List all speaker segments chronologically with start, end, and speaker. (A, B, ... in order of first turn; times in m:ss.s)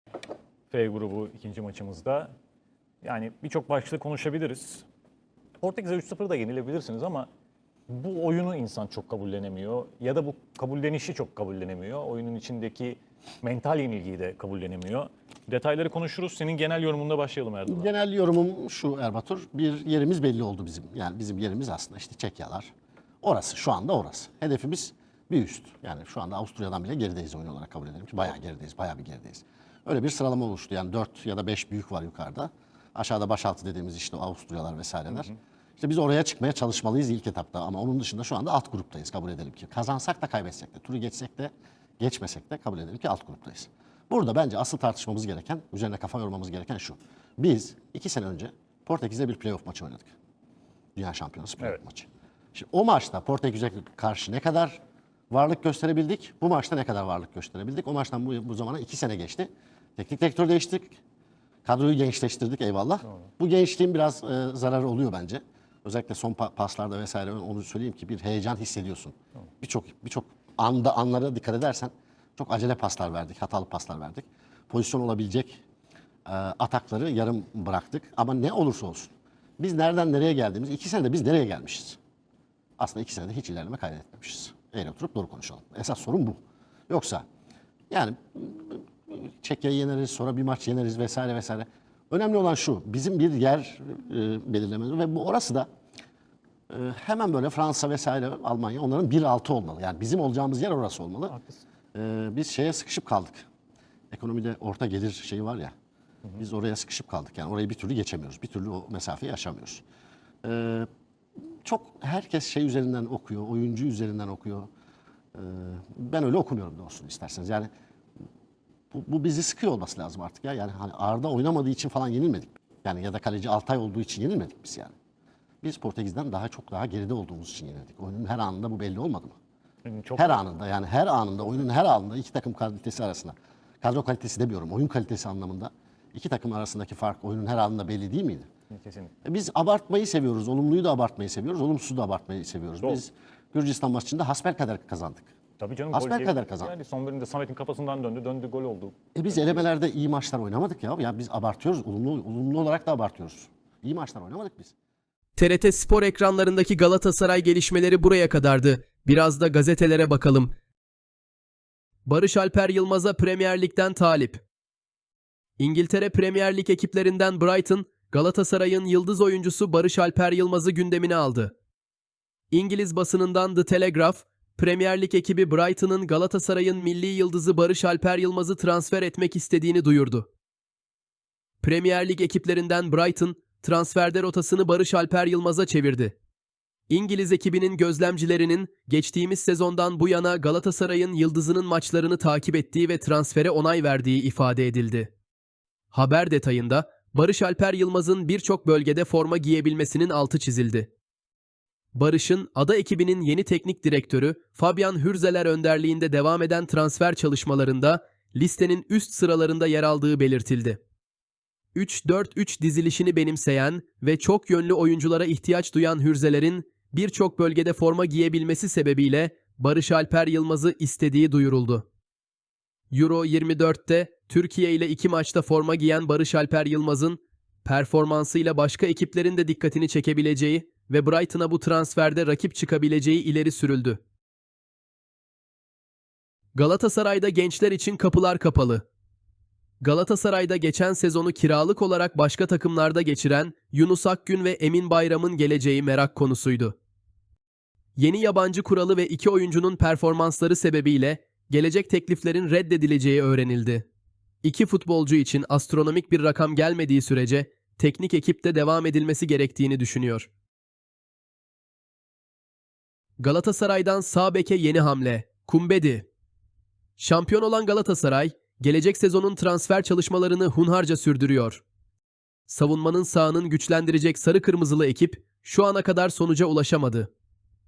0:00.7-0:02.3 A
0:03.0-0:04.9 A
0:05.6-0:07.3 A
0:07.9-0:17.9 A
0:17.7-0:50.1 B
0:51.0-0:54.8 B
0:55.3-1:01.0 B
1:01.6-1:15.6 B
1:16.2-1:22.0 B
1:22.8-1:26.4 B
1:26.9-1:27.2 B
1:27.9-1:35.7 B
1:36.7-1:41.4 B
1:41.3-1:41.6 A
1:41.9-1:43.4 B
1:44.1-1:45.7 B
1:46.4-1:49.8 B
1:50.4-1:50.9 B
1:51.6-1:54.7 B
1:55.3-1:57.7 B
1:58.9-2:04.9 B
2:05.6-2:09.4 B
2:09.8-2:10.4 A
2:10.2-2:18.5 B
2:18.7-2:19.1 A
2:19.2-2:25.3 B
2:25.6-2:29.6 A
2:25.9-2:26.7 B
2:29.2-2:34.7 B
2:35.4-2:40.6 C
2:42.1-2:44.4 C
2:45.6-2:51.5 C
2:52.5-3:00.3 C
3:01.6-3:06.2 C
3:06.9-3:15.1 C
3:15.9-3:20.9 C
3:21.9-3:30.8 C
3:31.8-3:41.8 C
3:42.9-3:54.0 C
3:56.6-3:58.8 C
3:59.8-4:06.8 C
4:08.0-4:13.9 C
4:14.4-4:20.3 C
4:23.2-4:26.1 C
4:27.0-4:31.6 C
4:32.5-4:37.1 C